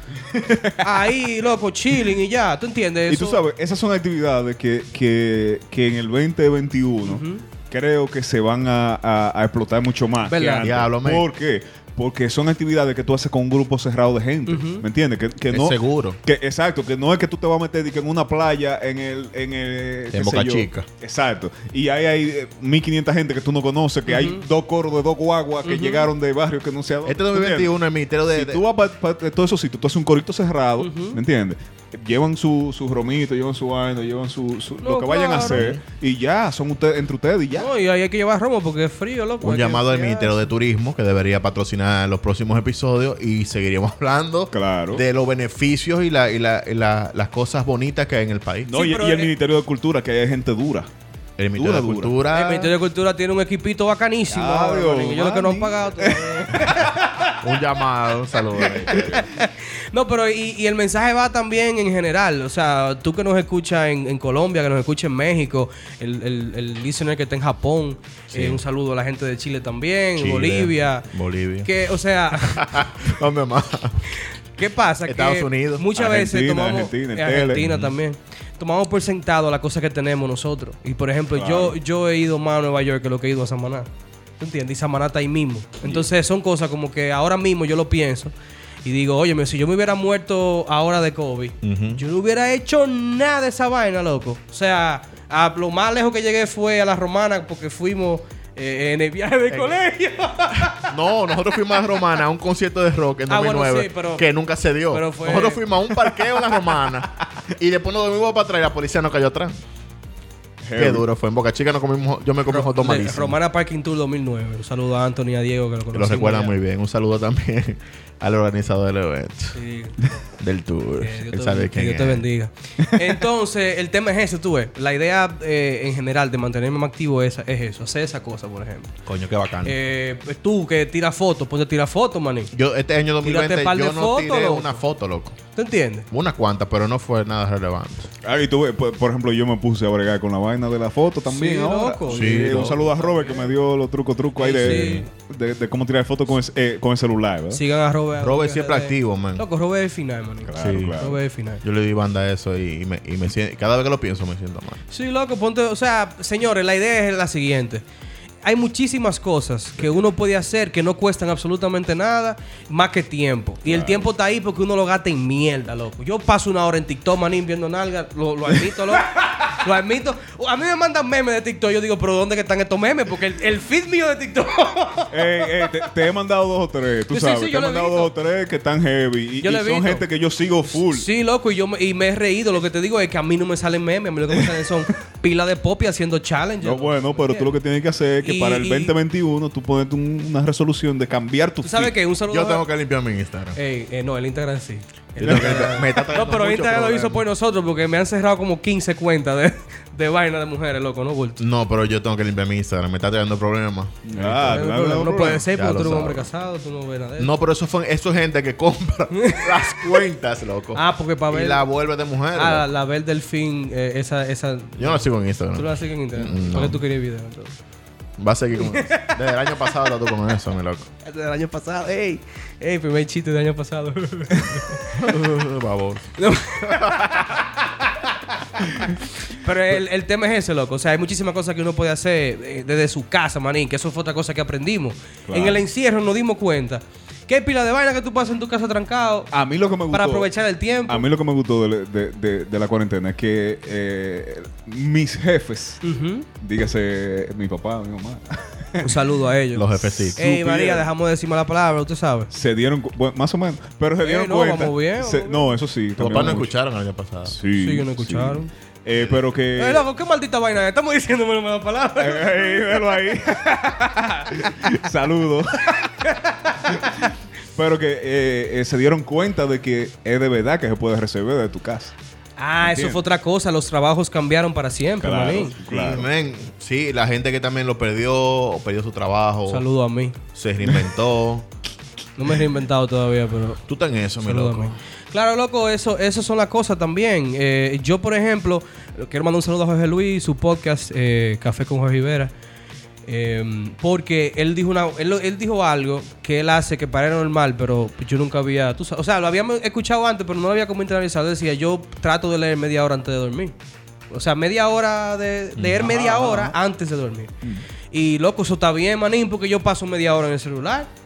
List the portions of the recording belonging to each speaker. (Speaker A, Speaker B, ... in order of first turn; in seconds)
Speaker A: 0.3-1.1, 3.1-27.7, 28.3-37.7, 44.5-45.0, 48.6-50.9, 51.5-52.1, 54.3-56.9, 58.9-59.2, 75.9-77.8, 81.3-81.8, 110.6-111.0, 138.2-147.6, 150.4-151.2, 163.6-164.1, 175.1-181.1, 186.6-191.9, 195.2-195.7, 204.1-205.4, 235.3-235.6, 239.3-240.3, 240.9-245.8, 246.4-249.0, 249.9-250.9, 252.3-256.5, 257.3-259.8, 262.0-266.1, 266.6-271.9, 272.6-273.0, 275.0-276.1, 305.8-306.5
Speaker B: 0.8-3.4, 7.0-7.4, 10.2-10.7, 14.5-14.8, 24.1-24.4, 25.6-26.1, 30.8-31.2, 34.8-35.7, 37.6-40.5, 48.7-49.3, 52.3-57.4, 58.9-71.1, 71.6-72.9, 74.2-83.8, 84.4-88.3, 88.8-101.0, 103.3-104.3, 104.9-105.7, 112.5-116.5, 119.5-120.1, 121.0-128.9, 129.6-132.5, 133.2-134.8, 135.5-136.1, 141.3-143.5, 144.3-145.1, 147.5-151.6, 154.9-157.8, 158.4-175.8, 177.1-178.1, 179.4-180.0, 180.7-187.5, 188.2-188.9, 191.6-192.6, 193.5-201.4, 204.2-207.3, 209.1-209.7, 210.7-211.6, 212.3-217.5, 218.6-219.7, 221.0-225.3, 226.2-239.3, 239.9-241.1, 245.8-246.2, 248.8-252.3, 254.0-255.5, 256.1-256.4, 257.5-258.5, 259.6-262.6, 266.0-266.6, 272.4-275.6, 279.5-280.1, 282.2-283.6, 284.2-292.3, 293.1-303.5, 304.1-307.3, 307.9-310.9
Speaker C: 10.6-11.2, 15.5-16.2, 20.1-20.9, 27.0-28.6, 35.4-35.8, 39.4-48.7, 51.4-52.7, 57.4-59.2, 68.3-68.6, 70.2-71.7, 72.4-74.1, 75.0-75.9, 77.6-77.9, 91.6-92.0, 100.6-109.5, 110.8-113.4, 115.9-119.6, 120.4-122.2, 129.0-129.8, 132.5-135.4, 136.1-138.1, 142.1-142.8, 144.6-145.0, 148.2-149.4, 150.6-151.0, 151.6-154.8, 192.3-193.6, 195.2-197.2, 201.4-206.3, 207.2-212.7, 214.8-216.8, 218.2-220.9, 224.9-226.1, 226.6-227.2, 249.5-250.2, 256.0-257.4, 275.6-279.6, 280.3-281.5, 283.7-284.7, 305.6-305.9